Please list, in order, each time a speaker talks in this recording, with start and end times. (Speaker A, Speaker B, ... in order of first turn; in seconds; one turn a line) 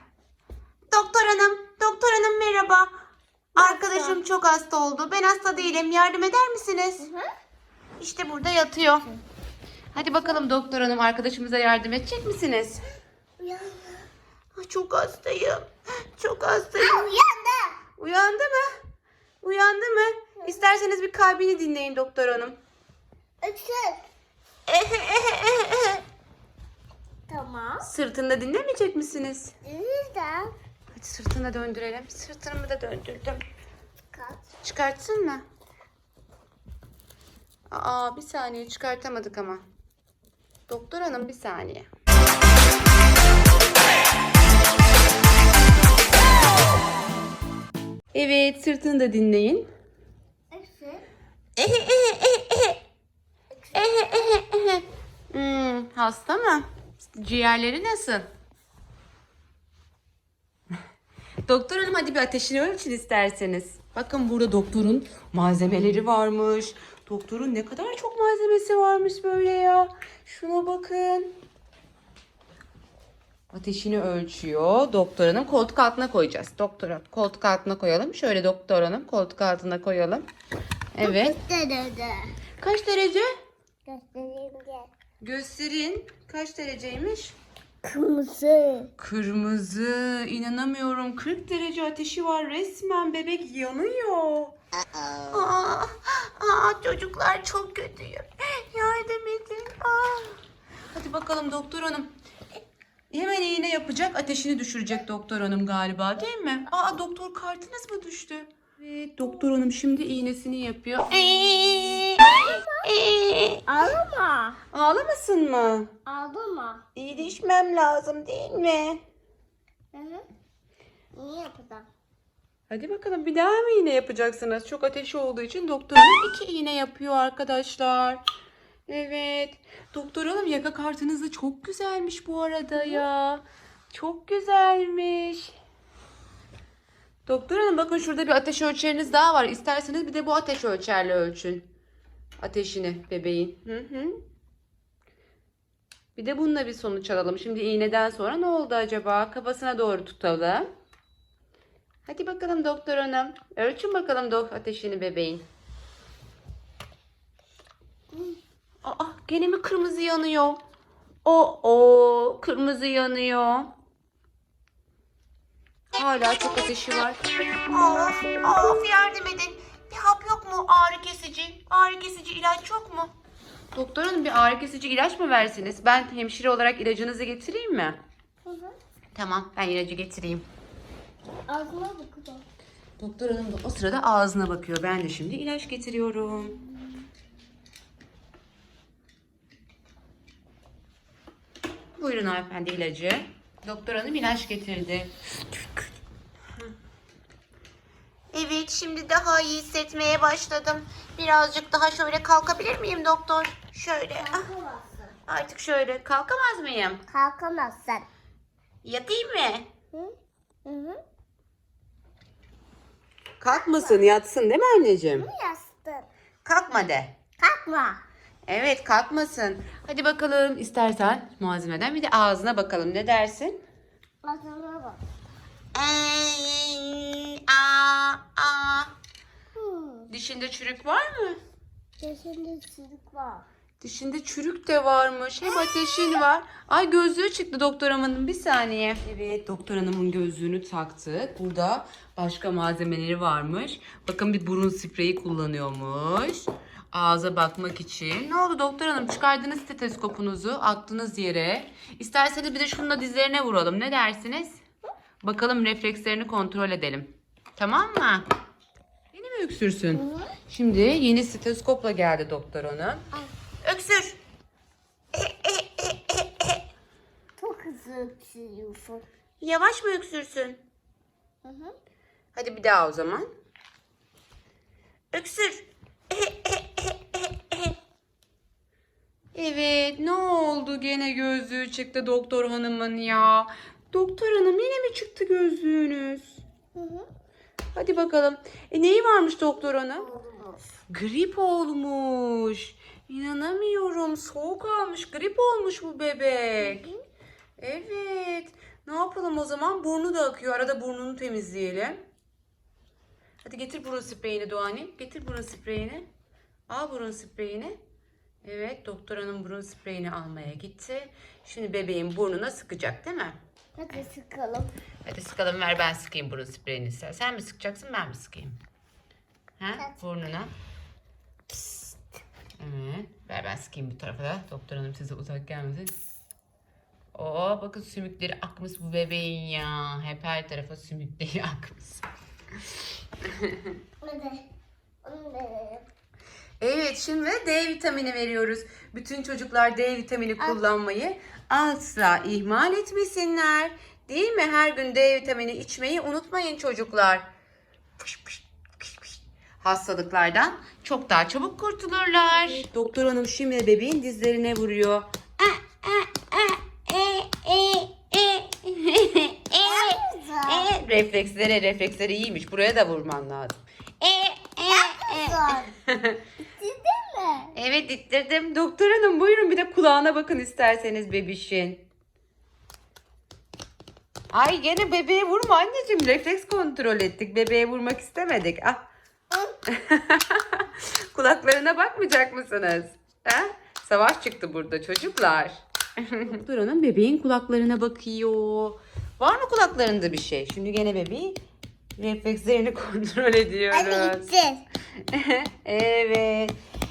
Speaker A: 0.9-2.9
Speaker B: 3.5-4.2
Speaker A: 3.5-7.1
Speaker B: 7.0-7.3
Speaker A: 8.0-9.1
Speaker A: 9.9-12.8
Speaker B: 9.9-10.4
Speaker B: 13.4-14.1
Speaker A: 14.6-17.1
Speaker B: 16.8-17.8
Speaker A: 18.0-18.7
Speaker A: 19.4-22.6
Speaker B: 23.4-24.0
Speaker A: 24.7-26.0
Speaker B: 27.3-27.9
Speaker A: 27.8-29.5
Speaker B: 29.6-30.5
Speaker A: 30.9-33.4
Speaker B: 34.1-34.4
Speaker A: 34.6-35.4
Speaker A: 37.7-39.6
Speaker A: 40.7-41.9
Speaker A: 48.1-49.7
Speaker B: 50.5-51.0
Speaker A: 51.6-52.8
Speaker B: 53.5-54.3
Speaker A: 53.7-58.3
Speaker A: 61.5-71.3
Speaker A: 73.5-80.3
Speaker A: 80.9-81.3
Speaker B: 81.0-82.3
Speaker A: 82.6-83.3
Speaker B: 83.8-84.9
Speaker A: 85.2-87.3
Speaker B: 87.8-88.9
Speaker A: 89.0-94.5
Speaker A: 95.3-100.4
Speaker A: 100.9-102.1
Speaker A: 103.1-113.6
Speaker B: 112.1-112.8
Speaker B: 113.7-114.6
Speaker A: 114.7-115.9
Speaker B: 116.0-116.8
Speaker A: 116.9-119.0
Speaker B: 119.9-120.2
Speaker B: 121.2-121.9
Speaker A: 122.7-128.2
Speaker A: 128.9-135.5
Speaker A: 137.2-141.7
Speaker A: 142.4-144.2
Speaker A: 146.2-150.7
Speaker A: 152.1-155.4
Speaker A: 158.8-160.6
Speaker A: 161.2-163.7
Speaker A: 165.9-173.1
Speaker A: 173.7-178.0
Speaker B: 178.4-178.8
Speaker A: 179.1-180.5
Speaker B: 181.5-182.4
Speaker A: 183.0-186.6
Speaker A: 191.9-195.1
Speaker A: 198.3-204.5
Speaker B: 204.2-205.1
Speaker A: 205.3-207.0
Speaker B: 207.1-208.1
Speaker A: 208.8-209.7
Speaker B: 210.6-211.0
Speaker A: 213.4-215.3
Speaker B: 213.5-214.1
Speaker B: 215.2-216.1
Speaker A: 216.4-217.1
Speaker B: 217.4-218.0
Speaker A: 218.5-223.6
Speaker B: 224.2-225.0
Speaker A: 225.7-228.9
Speaker B: 229.6-230.1
Speaker A: 230.1-231.4
Speaker B: 232.0-233.4
Speaker A: 233.8-254.6
Speaker A: 255.2-258.2
Speaker A: 259.1-263.1
Speaker B: 259.9-260.3
Speaker A: 263.6-264.2
Speaker A: 265.1-266.6
Speaker B: 267.4-269.1
Speaker A: 269.4-270.6
Speaker B: 271.4-271.7
Speaker A: 272.3-273.3
Speaker A: 275.1-277.7
Speaker A: 279.3-286.4
Speaker B: 286.7-287.1
Speaker A: 287.7-290.1
Speaker B: 289.9-290.6
Speaker A: 290.9-296.9
Speaker B: 296.6-297.0
Speaker A: 297.6-302.0
Speaker A: 303.4-306.1
Speaker A: 306.7-307.8
Speaker A: 308.4-313.4
Speaker B: 313.8-314.7
Speaker A: 315.0-318.6
Speaker A: 319.6-320.5
Speaker B: 321.5-321.9
Speaker A: 322.6-326.1
Speaker A: 327.1-332.0
Speaker A: 333.3-333.6
Speaker B: 334.0-334.5
Speaker B: 335.0-335.9
Speaker A: 336.6-347.3
Speaker A: 348.0-366.2
Speaker B: 359.6-360.7
Speaker B: 364.7-365.7
Speaker B: 366.4-367.5
Speaker A: 367.5-371.9
Speaker A: 374.3-378.9
Speaker A: 379.7-391.4
Speaker A: 392.0-394.3
Speaker B: 393.7-394.6
Speaker A: 395.1-396.5